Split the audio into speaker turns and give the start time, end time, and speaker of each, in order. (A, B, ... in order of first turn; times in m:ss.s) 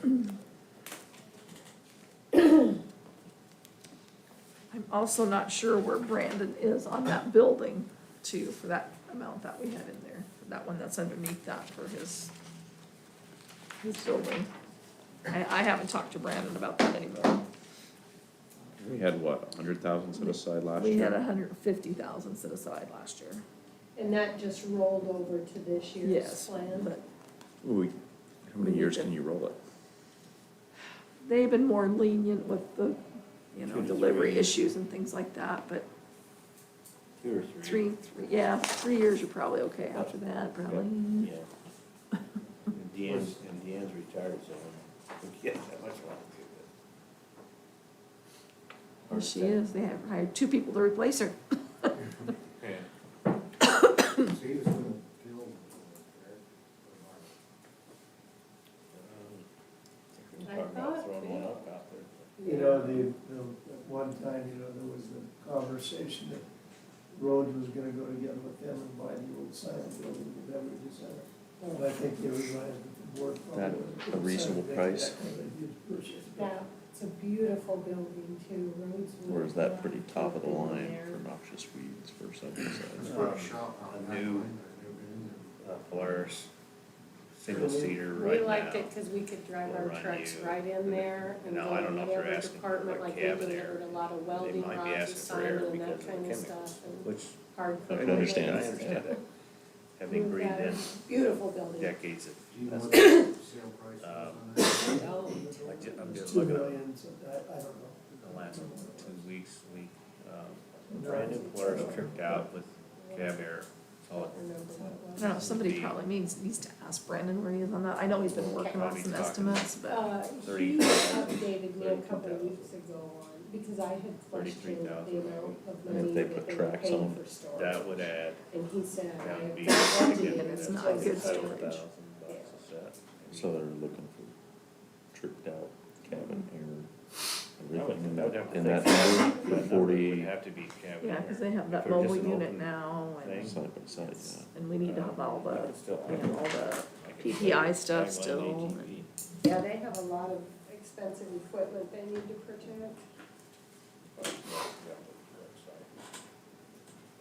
0:04.7-0:12.3 A
0:13.8-0:14.5 A
0:15.3-0:17.4 A
0:18.8-0:21.2 B
0:20.1-0:23.4 A
0:24.0-0:26.9 C
0:26.0-0:27.0 A
0:27.6-0:29.6 B
0:28.6-0:29.1 A
0:31.2-0:33.0 A
0:33.5-0:35.8 A
0:33.6-0:34.6 D
0:37.2-0:37.8 D
0:37.6-0:41.3 A
0:40.6-0:41.5 D
0:42.7-0:46.7 D
0:43.0-0:43.4 E
0:49.1-0:49.4 E
0:49.1-0:51.9 A
0:52.5-0:52.9 D
0:54.3-0:57.3 E
0:58.9-0:59.5 D
1:00.2-1:02.3 D
1:00.4-1:01.6 C
1:02.4-1:03.0 C
1:02.4-1:06.4 F
1:07.1-1:16.6 F
1:11.6-1:12.0 C
1:13.5-1:15.2 B
1:16.3-1:21.2 C
1:19.2-1:23.2 B
1:23.0-1:23.4 F
1:23.0-1:26.1 E
1:23.0-1:24.5 D
1:25.6-1:26.5 D
1:27.4-1:28.9 D
1:27.4-1:28.0 F
1:28.1-1:38.8 C
1:29.6-1:39.2 D
1:37.9-1:39.0 B
1:40.0-1:43.1 D
1:40.1-1:42.0 C
1:42.5-1:45.2 E
1:42.9-1:43.3 C
1:44.0-1:44.6 D
1:44.6-1:45.8 C
1:44.8-1:49.2 F
1:45.6-1:46.8 D
1:48.1-1:56.0 D
1:50.9-1:52.3 F
1:51.2-1:52.1 C
1:53.0-1:53.4 C
1:54.1-1:55.4 C
1:55.2-2:00.0 A
1:58.2-1:59.7 D
1:58.6-1:59.0 C
1:59.8-2:07.8 C
2:00.4-2:02.7 D
2:04.3-2:05.8 D
2:05.8-2:07.2 B
2:07.5-2:08.4 D
2:08.5-2:12.6 C
2:09.1-2:13.7 D
2:09.8-2:11.8 A
2:13.3-2:14.4 B
2:15.1-2:16.9 B
2:17.6-2:20.3 B
2:17.7-2:23.6 D
2:19.0-2:19.6 C
2:21.0-2:29.0 A
2:23.4-2:24.5 B
2:24.8-2:29.1 D
2:29.4-2:33.0 C
2:34.1-2:35.9 D